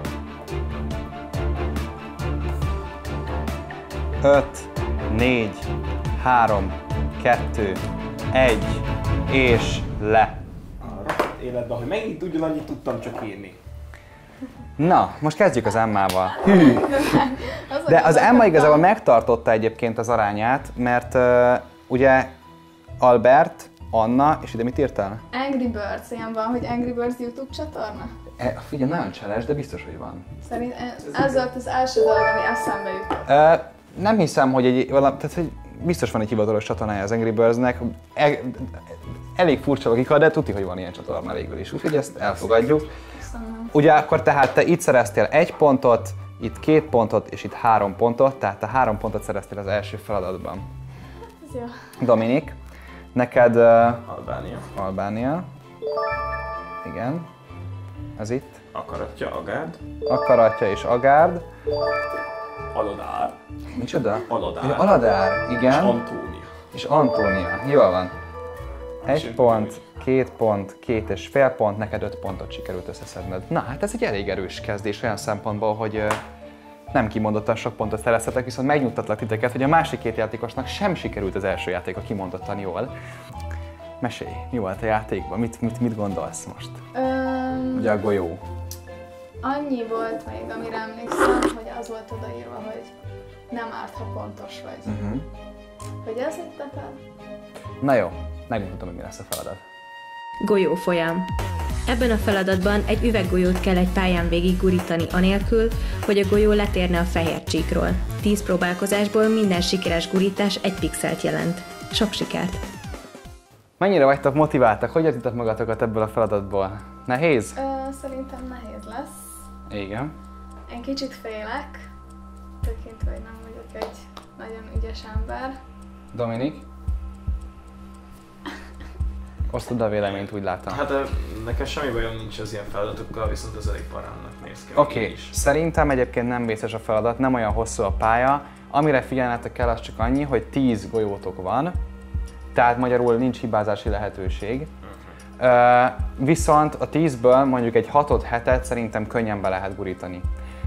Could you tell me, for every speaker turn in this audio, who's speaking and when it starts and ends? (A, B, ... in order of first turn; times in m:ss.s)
0:04.2-0:10.4 A
0:10.8-0:13.6 B
0:14.8-0:17.2 A
0:16.4-0:18.8 C
0:17.9-0:22.3 A
0:23.0-0:25.2 A
0:25.3-0:28.1 C
0:28.4-0:30.2 A
0:30.4-0:33.3 C
0:33.2-0:42.9 A
0:43.2-0:43.7 C
0:43.7-0:50.6 A
0:51.4-0:51.7 C
0:52.0-0:52.6 A
0:53.1-0:54.0 A
0:54.1-0:54.7 B
0:54.8-0:55.5 A
0:56.8-0:57.3 A
0:58.2-0:58.6 A
0:58.7-0:59.8 B
1:00.1-1:01.4 A
1:02.7-1:03.4 B
1:03.7-1:06.0 A
1:04.3-1:04.9 B
1:05.6-1:06.5 B
1:06.7-1:08.1 A
1:09.0-1:16.2 A
1:09.1-1:09.8 B
1:16.9-1:22.9 A
1:24.0-1:26.8 A
1:26.9-1:27.9 C
1:27.7-1:28.4 A
1:29.4-1:32.9 C
1:33.5-1:34.9 C
1:34.9-1:35.2 A
1:36.0-1:37.0 C
1:37.8-1:39.6 A
1:40.4-1:41.3 D
1:41.9-1:52.6 D
1:53.8-1:57.6 A
1:57.6-1:59.3 C
1:59.7-2:00.1 A
2:00.7-2:01.8 C
2:02.6-2:05.6 C
2:06.1-2:06.6 A
2:09.5-2:10.8 A
2:10.0-2:15.3 B
2:14.7-2:21.8 A
2:22.5-2:24.7 A
2:25.4-2:30.2 A